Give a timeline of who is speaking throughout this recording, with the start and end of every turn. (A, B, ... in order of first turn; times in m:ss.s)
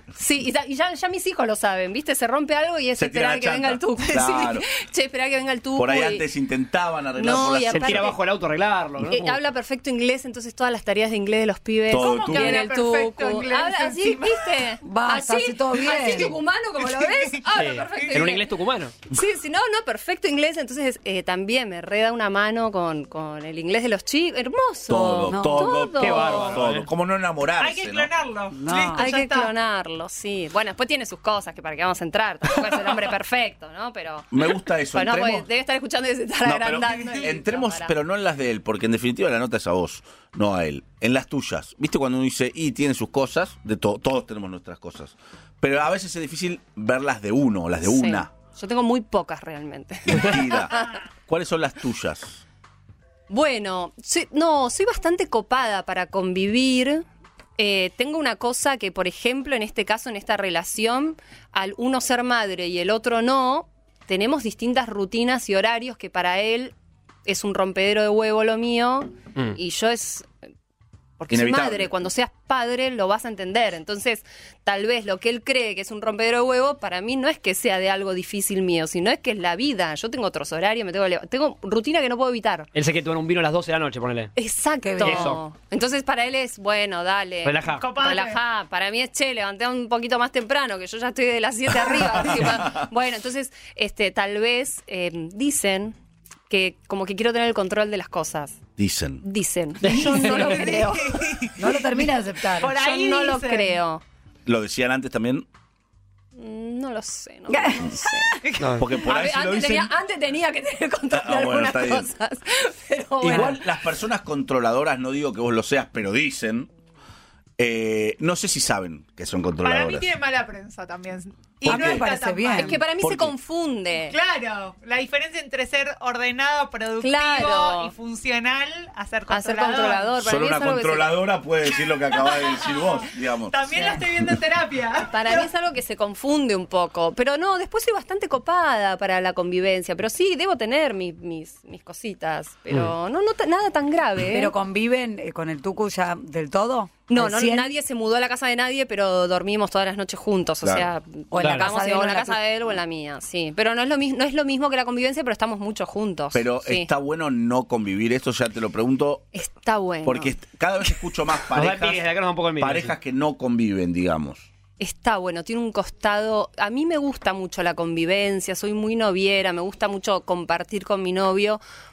0:00.2-0:06.2 A
0:03.0-0:04.7 B
0:05.8-0:08.2 B
0:07.2-0:08.2 A
0:07.7-0:09.4 C
0:09.0-0:18.5 A
0:11.9-0:14.5 D
0:11.9-0:12.6 B
0:14.8-0:16.4 E
0:17.5-0:18.9 C
0:19.1-0:26.6 A
0:24.9-0:28.1 B
0:25.3-0:25.9 E
0:26.0-0:26.9 C
0:27.6-0:29.5 D
0:28.5-0:29.1 E
0:28.9-0:34.3 A
0:34.3-0:35.5 B
0:34.9-0:37.9 A
0:36.4-0:48.3 B
0:47.8-0:51.0 A
0:50.1-0:52.4 B
0:53.3-0:57.0 A
0:57.6-1:06.7 A
1:07.2-1:10.3 A
1:11.2-1:22.7 A
1:11.3-1:11.9 B
1:22.8-1:24.3 C
1:24.4-1:36.0 A
1:24.8-1:25.4 E
1:25.0-1:25.4 C
1:27.4-1:27.9 C
1:27.8-1:28.4 D
1:32.1-1:32.8 B
1:36.5-1:38.6 A
1:38.8-1:39.2 B
1:39.2-1:41.4 A
1:39.8-1:40.6 C
1:39.8-1:41.7 D
1:41.6-1:42.8 E
1:42.6-1:43.8 D
1:42.6-1:44.0 A
1:44.4-1:45.5 B
1:46.4-1:48.3 A
1:47.5-1:48.3 E
1:48.4-1:48.7 D
1:48.8-1:49.9 B
1:48.9-1:53.6 A
1:51.1-1:52.1 B
1:53.2-1:56.7 B
1:53.2-1:53.5 C
1:57.6-2:00.1 B
1:59.6-2:02.8 D
2:01.6-2:02.1 B
2:01.6-2:02.8 E
2:02.6-2:04.2 A
2:03.0-2:03.3 B
2:04.1-2:10.2 D
2:07.0-2:07.9 A
2:09.3-2:11.2 A
2:10.2-2:14.3 B
2:11.9-2:15.5 D
2:15.1-2:24.6 A
2:24.3-2:27.7 E
2:27.1-2:36.9 A
2:31.3-2:32.4 E
2:31.4-2:31.7 C
2:36.3-2:39.3 B
2:39.3-2:40.4 A
2:40.0-2:44.4 B
2:41.5-2:42.9 C
2:44.8-2:51.6 A